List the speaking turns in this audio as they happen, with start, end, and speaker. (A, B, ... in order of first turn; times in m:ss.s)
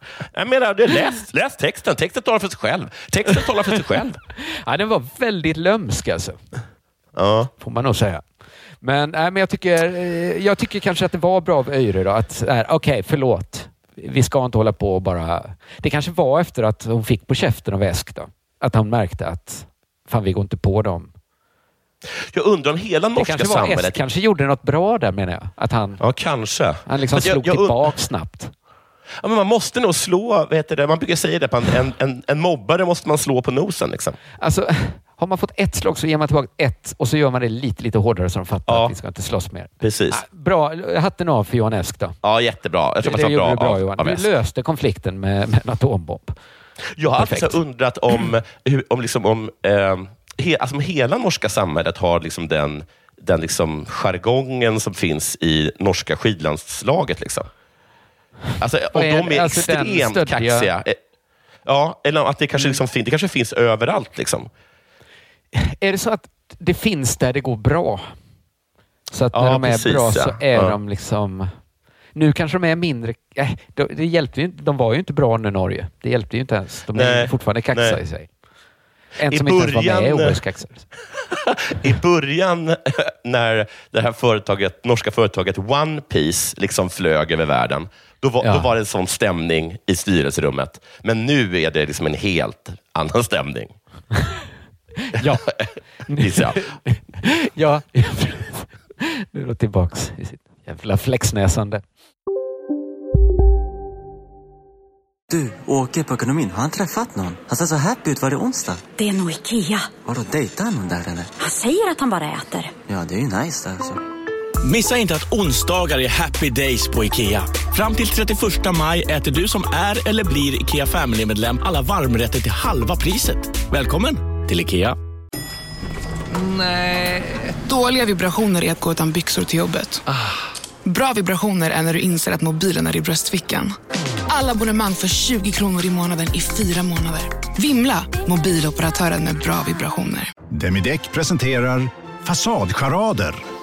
0:00.3-0:04.2 A
0:04.4-0:06.4 B
0:07.2-0:07.5 A
0:07.6-0:08.2 B
0:08.8-0:21.1 B
0:22.2-0:24.0 A
0:23.2-0:26.0 B
0:26.0-0:27.9 A
0:26.9-0:28.5 B
0:29.2-0:34.2 A
0:34.4-0:42.2 B
0:38.7-0:38.9 A
0:39.8-0:40.2 A
0:42.2-0:44.3 A
0:43.0-0:46.4 B
0:47.0-0:57.5 A
0:47.0-0:47.6 B
0:58.6-1:01.0 A
0:58.9-1:00.7 B
1:01.6-1:04.5 A
1:05.5-1:08.1 B
1:09.1-1:11.5 B
1:09.3-1:10.8 A
1:12.2-1:18.3 B
1:16.9-1:18.0 A
1:19.2-1:20.9 B
1:19.3-1:20.4 A
1:21.3-1:33.8 A
1:28.4-1:28.7 B
1:35.0-1:35.5 B
1:35.2-1:35.7 A
1:36.1-1:41.8 B
1:36.2-1:36.6 A
1:45.3-1:48.9 C
1:49.0-1:49.9 D
1:50.0-1:51.4 C
1:51.4-1:52.7 D
1:52.9-1:54.0 C
1:54.6-2:05.0 E
2:06.3-2:07.6 E
2:07.6-2:10.0 F
2:10.8-2:13.7 F
2:14.3-2:20.3 F
2:20.5-2:23.4 G